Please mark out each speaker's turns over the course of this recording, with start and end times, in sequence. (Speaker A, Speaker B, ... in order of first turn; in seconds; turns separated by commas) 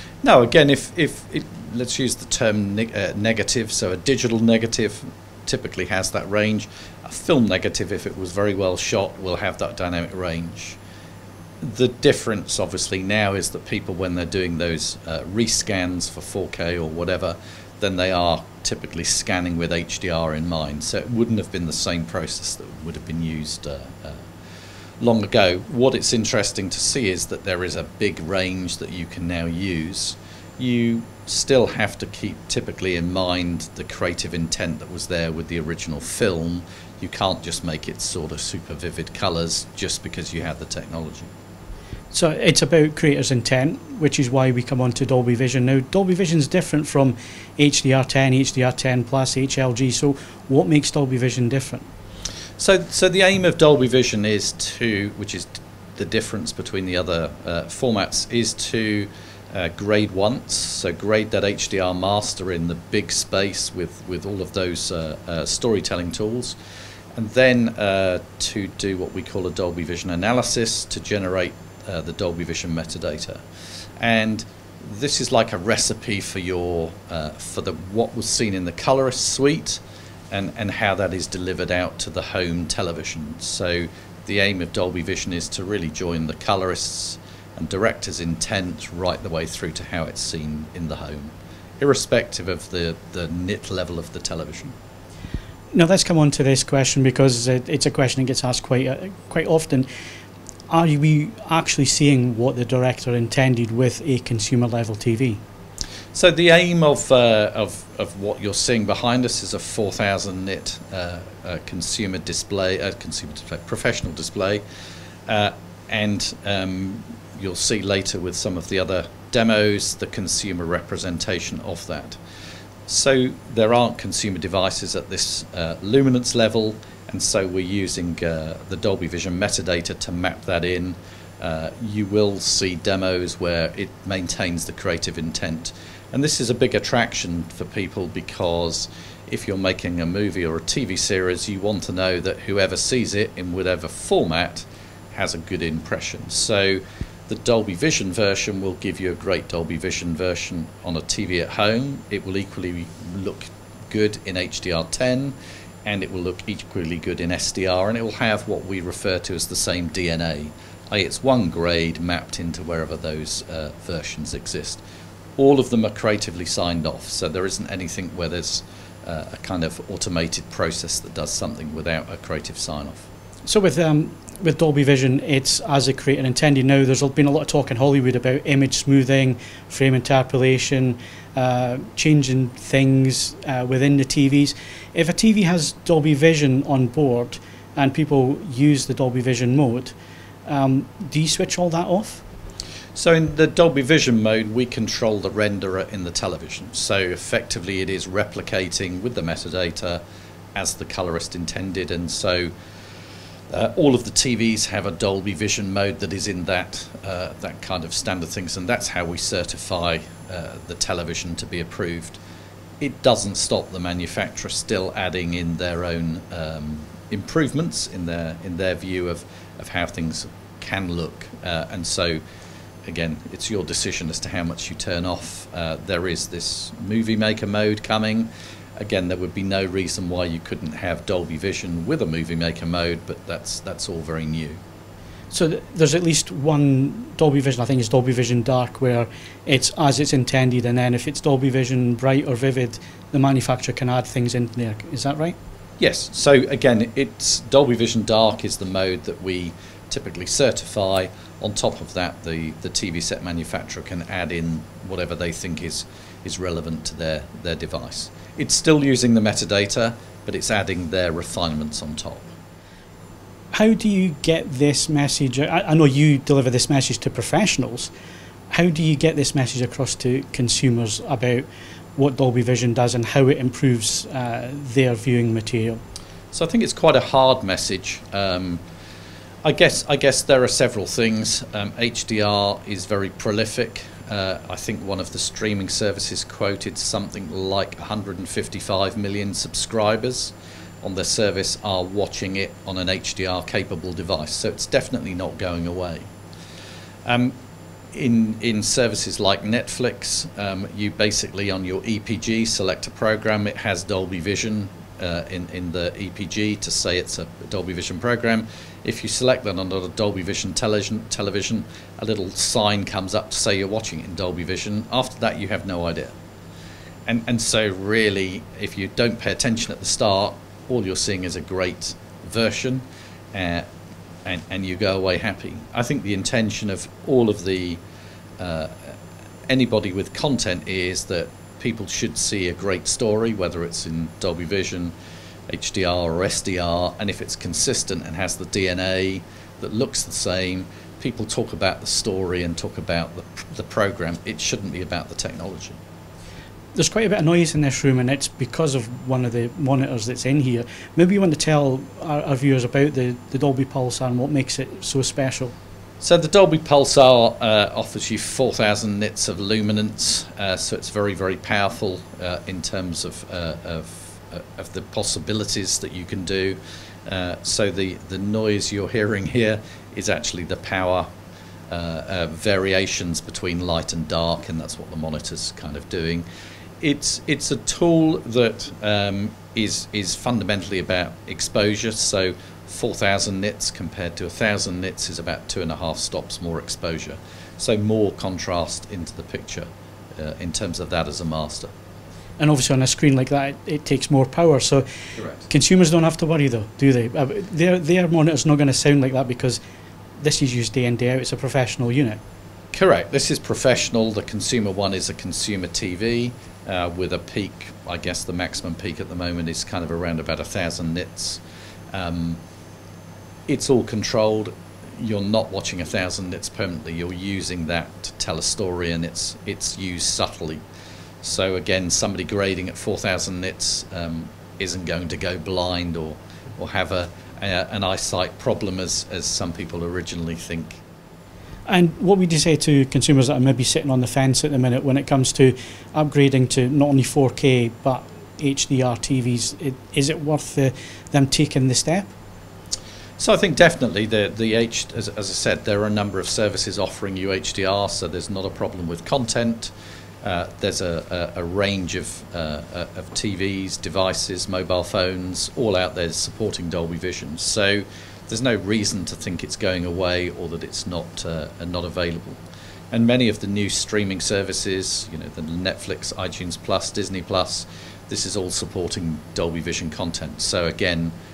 Speaker A: 0.2-10.8, Speaker A: 11.6-24.3, Speaker A: 25.0-41.3, Speaker B: 42.1-51.9, Speaker A: 52.6-66.6, Speaker A: 67.1-73.4, Speaker A: 74.0-94.7, Speaker B: 95.7-99.9, Speaker B: 100.7-105.4, Speaker A: 106.1-114.6, Speaker A: 115.3-122.2, Speaker A: 122.9-164.8, Speaker A: 165.4-173.1, Speaker B: 173.4-189.9, Speaker B: 190.4-192.2, Speaker A: 192.9-200.0, Speaker A: 200.5-202.5, Speaker A: 203.5-212.2, Speaker A: 212.8-222.2, Speaker A: 222.8-234.6, Speaker B: 235.3-245.3, Speaker A: 245.8-262.3, Speaker B: 263.5-267.9, Speaker B: 268.5-275.8, Speaker A: 276.3-278.6, Speaker A: 279.4-296.1, Speaker A: 297.1-297.3, Speaker A: 297.9-316.1, Speaker A: 317.1-323.7, Speaker A: 324.2-327.8, Speaker A: 328.4-328.9, Speaker A: 329.5-334.9, Speaker A: 335.5-345.8, Speaker B: 346.7-355.6, Speaker A: 356.0-371.1, Speaker A: 371.7-376.2, Speaker A: 376.8-391.7, Speaker B: 392.4-399.6, Speaker B: 400.2-402.2, Speaker A: 402.7-411.4, Speaker A: 411.9-412.4, Speaker A: 413.5-420.6, Speaker A: 421.2-430.8, Speaker B: 431.7-442.1, Speaker A: 443.2-449.7, Speaker A: 450.2-462.4, Speaker A: 462.9-471.1